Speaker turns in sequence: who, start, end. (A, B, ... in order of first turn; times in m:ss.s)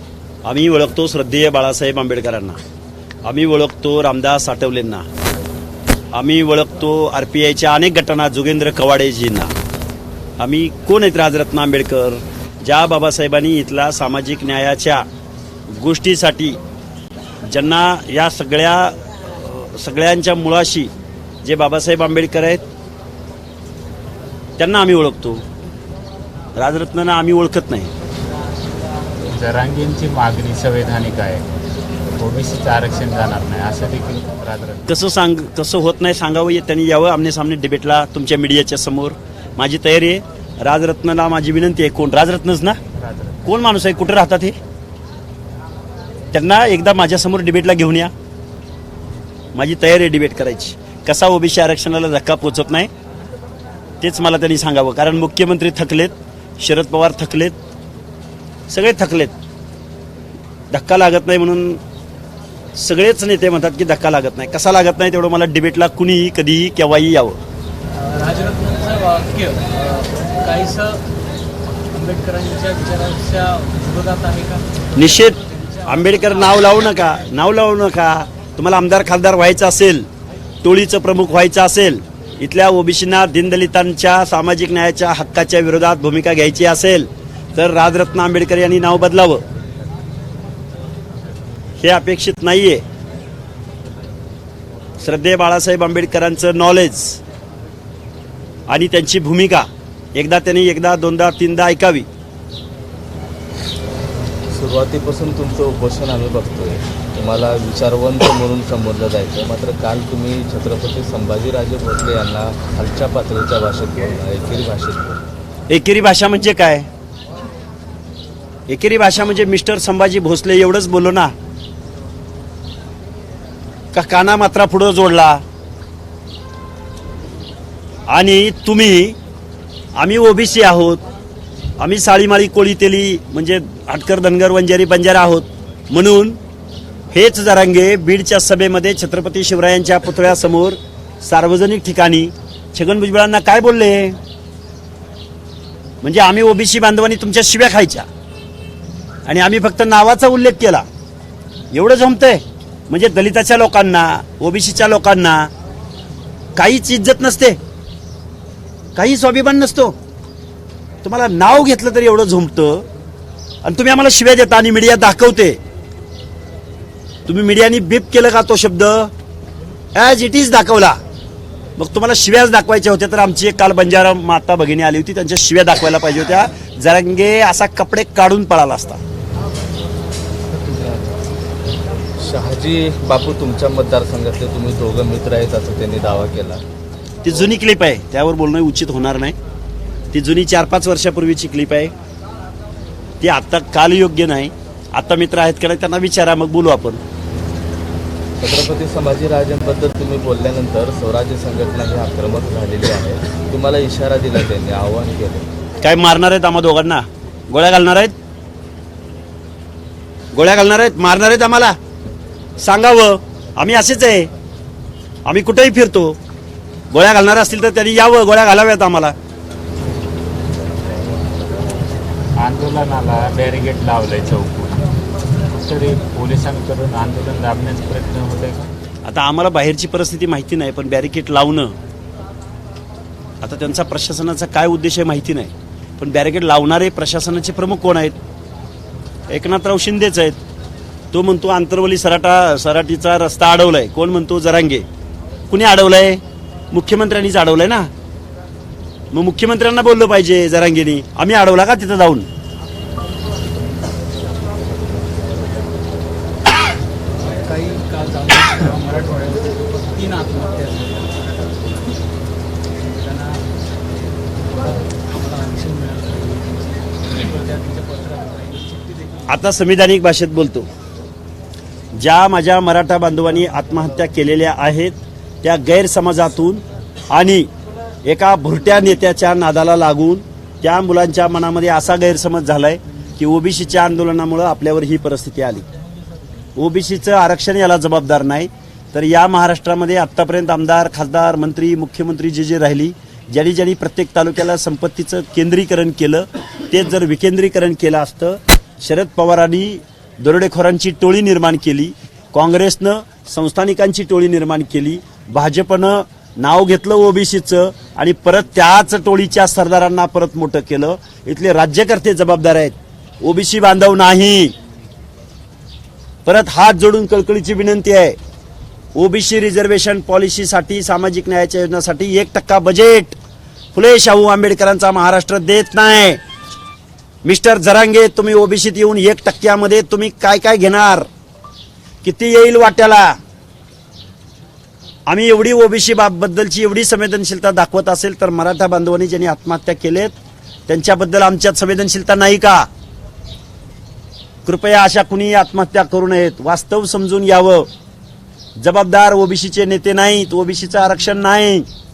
0:00.4-0:02.6 A
0:03.2-0:05.0 A
0:06.1-0:09.5 A
0:10.4-0:15.0 A
0:15.7-0:16.6 A
0:17.5-0:20.9 A
0:21.4-0:22.6 A
0:24.6-0:25.4 A
0:26.6-0:27.9 A
0:29.2-0:31.5 B
0:32.2-0:34.8 B
0:34.9-0:42.8 A
0:43.0-0:43.5 B
0:43.4-0:44.6 A
0:46.3-0:48.1 A
0:49.5-0:52.9 A
0:54.0-0:57.6 A
0:58.7-0:59.3 A
1:00.7-1:01.8 A
1:02.8-1:07.4 A
1:07.9-1:11.0 C
1:11.9-1:16.5 C
1:14.9-1:20.1 A
1:20.6-1:29.4 A
1:31.8-1:32.8 A
1:35.0-1:37.2 A
1:38.7-1:42.1 A
1:44.5-1:55.2 D
1:55.7-1:56.9 A
1:58.7-2:01.3 A
2:03.9-2:05.4 A
2:08.1-2:09.2 A
2:10.0-2:11.0 A
2:11.8-2:16.4 A
2:17.1-2:24.2 A
2:26.0-2:28.1 A
2:29.2-2:30.8 A
2:31.7-2:35.5 A
2:36.6-2:37.6 A
2:39.0-2:39.9 A
2:41.0-2:42.8 A
2:43.6-2:45.6 A
2:47.3-2:49.1 A
2:49.9-2:51.0 A
2:51.8-2:59.0 A
3:00.6-3:01.1 D
3:02.2-3:06.6 D
3:07.2-3:09.3 A
3:10.1-3:11.9 A
3:13.2-3:17.0 A
3:18.4-3:25.5 D
3:25.8-3:28.1 A
3:30.3-3:31.7 A
3:32.6-3:34.3 A
3:35.2-3:36.2 A
3:36.9-3:39.1 A
3:42.4-3:44.9 B
3:45.5-3:48.7 B
3:49.0-3:51.7 A
3:53.4-3:58.2 A
3:59.3-4:00.4 A
4:01.1-4:04.8 A
4:05.5-4:07.9 A
4:09.1-4:12.3 A
4:17.2-4:21.7 C
4:22.8-4:23.4 C
4:24.4-4:29.0 C
4:29.3-4:30.7 A
4:32.0-4:37.5 A
4:38.0-4:45.6 A
4:46.6-5:14.5 A
5:16.2-5:18.2 A
5:19.0-5:23.2 A
5:23.7-5:26.2 A
5:27.2-5:31.1 A
5:32.0-5:33.2 A
5:35.1-5:40.1 A
5:40.7-5:42.7 A
5:44.4-5:47.7 A
5:48.6-5:51.7 A